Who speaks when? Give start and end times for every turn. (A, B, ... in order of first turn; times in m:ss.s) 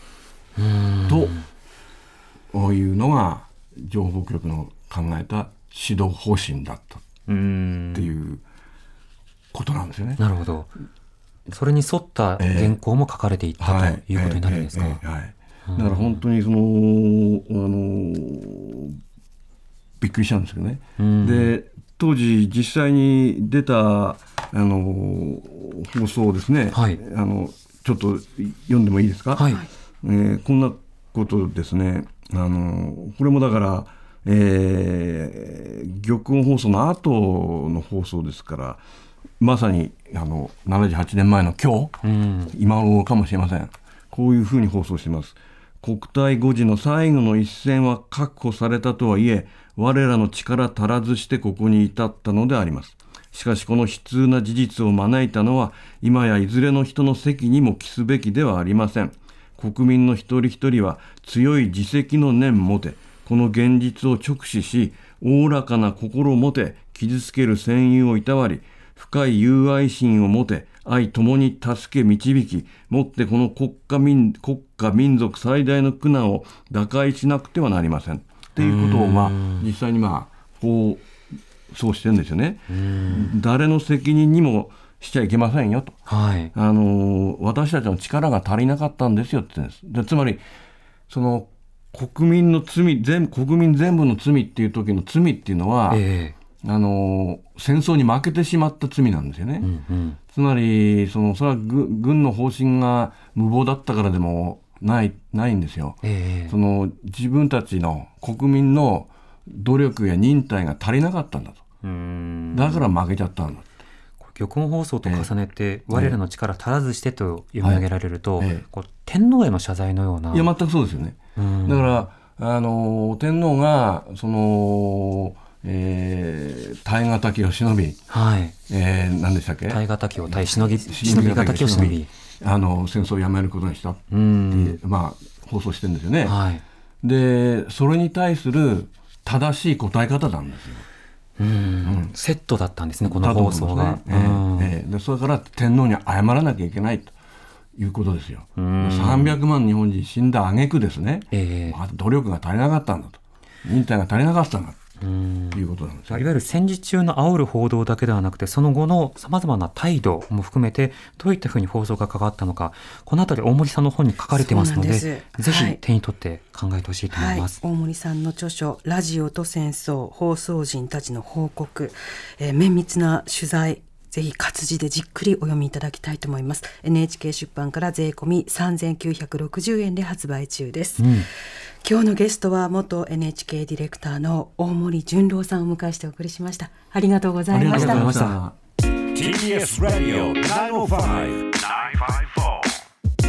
0:00.6-0:01.4 A
0:01.1-0:01.4 B
0:02.5-0:07.1 B
0:07.3-0:08.1 A
0:07.9-0:08.4 B
0:09.5-0:10.2 B
0:10.2-0:10.7 A
0:11.5-0:15.0 A
0:12.4-0:12.8 B
0:13.6-0:19.0 B
0:15.7-0:16.2 A
0:20.0-0:38.8 B
0:21.0-0:21.5 A
0:26.7-0:27.0 A
0:29.4-0:29.6 A
0:39.4-1:21.1 B
0:42.0-0:42.5 A
1:18.6-1:19.7 A
1:21.7-1:26.0 B
1:22.7-1:23.3 A
1:26.1-1:26.5 A
1:26.5-1:30.4 B
1:31.1-1:36.0 B
1:35.9-1:36.3 A
1:36.6-1:39.7 B
1:39.6-1:40.2 A
1:40.3-1:51.6 B
1:46.0-1:46.5 A
1:51.8-1:52.9 A
1:52.5-1:53.6 B
1:54.2-2:00.5 A
1:55.9-1:56.2 B
1:58.4-1:58.6 B
2:00.3-2:08.0 B
2:01.4-2:01.9 A
2:08.1-2:08.5 A
2:08.7-2:16.4 B
2:09.7-2:12.1 A
2:14.1-2:14.8 A
2:16.2-2:16.6 A
2:17.0-2:20.8 B
2:21.4-2:24.7 A
2:21.8-2:22.1 B
2:23.0-2:27.1 B
2:27.8-2:34.8 B
2:28.6-2:29.4 A
2:31.3-2:31.8 A
2:35.0-2:47.6 A
2:35.5-2:36.2 B
2:44.3-2:45.8 C
2:47.1-3:01.2 C
3:01.0-3:01.3 A
3:01.8-3:08.1 C
3:07.5-3:08.5 B
3:07.7-3:08.4 A
3:09.1-3:12.8 D